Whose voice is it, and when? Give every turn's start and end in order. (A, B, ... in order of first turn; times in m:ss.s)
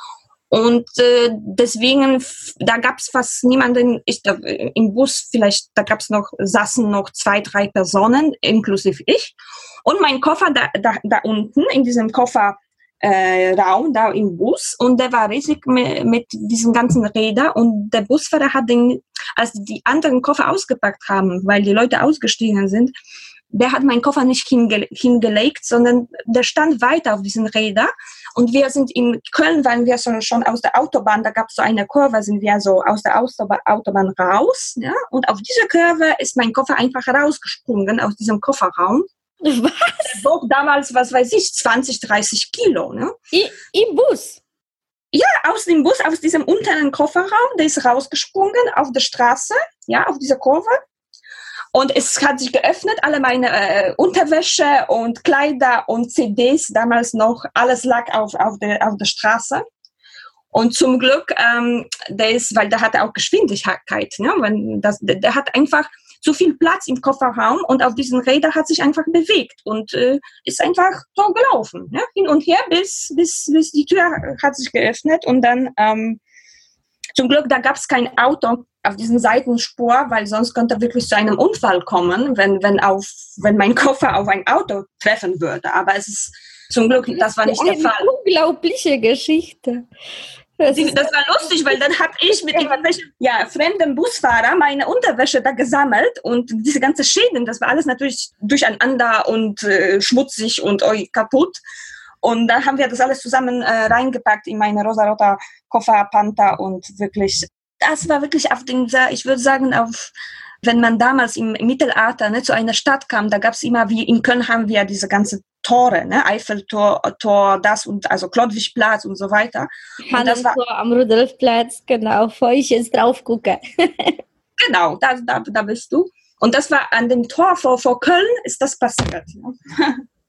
0:00.5-0:22.9 A
0:23.5-0:39.0 A
0:39.4-0:40.2 B
0:40.0-0:43.1 A
0:43.3-0:44.4 B
0:45.1-0:50.8 A
0:51.7-0:59.6 A
1:00.5-1:16.2 A
1:17.2-1:28.1 A
1:27.2-1:29.8 B
1:30.6-1:31.1 B
1:30.7-1:41.6 A
1:42.2-2:00.6 A
2:00.1-2:04.2 B
2:04.6-2:10.0 A